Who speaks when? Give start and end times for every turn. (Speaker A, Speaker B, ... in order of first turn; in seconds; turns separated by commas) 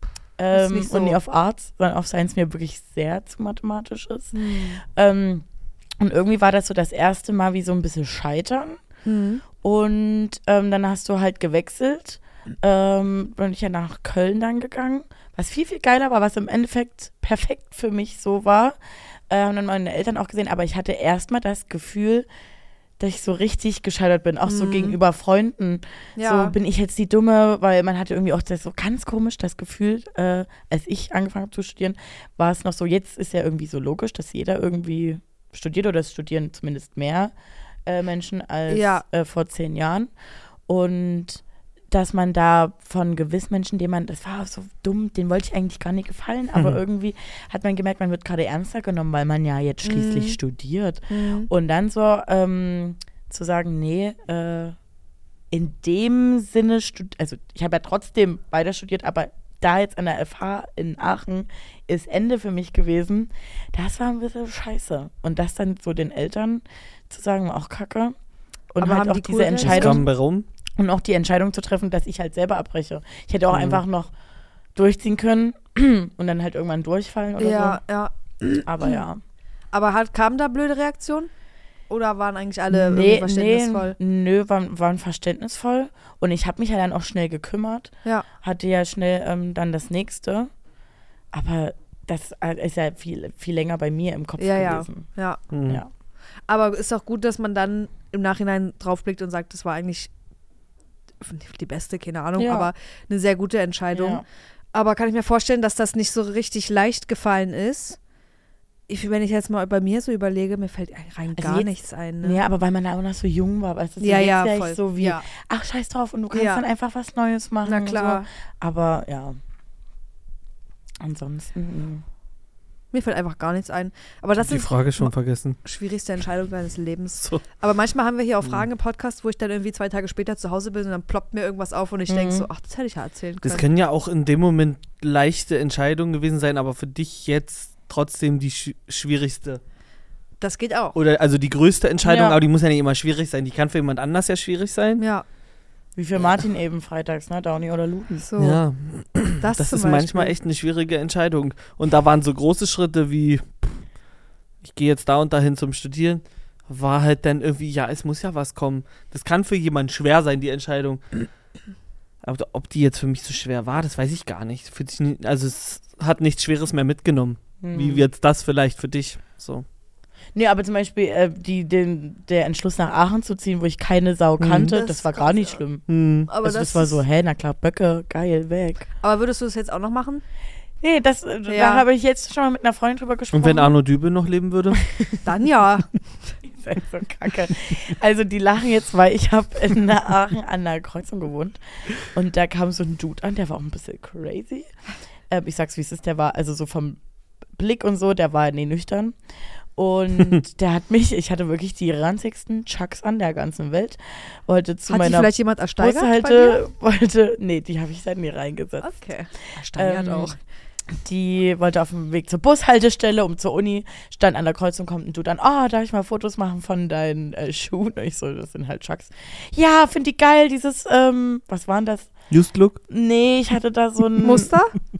Speaker A: 0.4-5.5, Speaker B: 0.5-1.2, Speaker B: 4.3-4.8, Speaker A: 6.0-8.8, Speaker B: 9.1-9.4, Speaker A: 9.6-18.8, Speaker A: 19.3-22.3, Speaker A: 23.0-37.3, Speaker B: 24.5-25.0, Speaker B: 26.2-26.6, Speaker A: 37.9-40.1, Speaker B: 38.7-39.0, Speaker A: 40.7-54.8, Speaker C: 46.5-46.8, Speaker B: 49.8-50.4, Speaker B: 51.1-51.5, Speaker A: 55.5-68.2, Speaker A: 68.7-70.1, Speaker B: 68.8-70.0, Speaker C: 69.6-70.5, Speaker A: 70.8-74.1, Speaker C: 73.5-73.8, Speaker A: 74.8-77.8, Speaker B: 77.4-79.0, Speaker A: 78.6-79.2, Speaker B: 79.7-81.3, Speaker B: 81.9-84.0, Speaker A: 82.7-90.5, Speaker A: 91.3-95.1, Speaker B: 94.4-95.4, Speaker C: 95.5-95.8, Speaker B: 96.5-100.1, Speaker B: 101.2-108.0, Speaker A: 102.4-102.7, Speaker A: 103.9-104.2, Speaker B: 108.9-112.4, Speaker A: 111.4-111.7, Speaker A: 112.2-119.4, Speaker B: 114.0-115.2, Speaker B: 116.3-116.7, Speaker B: 117.7-118.2, Speaker A: 121.0-122.0, Speaker B: 122.9-125.1, Speaker C: 124.4-125.6, Speaker B: 125.7-133.7, Speaker A: 132.1-132.5, Speaker C: 133.4-139.6, Speaker B: 140.4-141.0, Speaker C: 140.9-145.0, Speaker A: 142.0-142.4, Speaker B: 145.0-145.2, Speaker A: 146.0-148.3, Speaker B: 148.2-148.6, Speaker C: 148.4-153.8, Speaker B: 149.4-150.3, Speaker C: 154.6-161.0, Speaker C: 162.2-169.7, Speaker A: 167.6-168.1, Speaker A: 170.3-175.8, Speaker C: 174.4-174.8, Speaker B: 174.7-175.5, Speaker C: 175.9-176.3, Speaker B: 176.3-177.0, Speaker A: 176.4-178.9, Speaker B: 179.0-180.2, Speaker A: 180.8-183.8, Speaker B: 181.5-181.8, Speaker C: 183.3-184.8, Speaker A: 184.8-185.2, Speaker B: 185.2-185.9, Speaker A: 186.5-194.7, Speaker A: 195.3-197.0, Speaker A: 197.6-199.2, Speaker A: 199.8-208.9, Speaker B: 204.9-206.6, Speaker B: 208.8-210.4, Speaker A: 209.7-210.3, Speaker A: 210.9-222.2, Speaker C: 222.3-222.8, Speaker A: 222.9-224.5, Speaker B: 224.2-224.8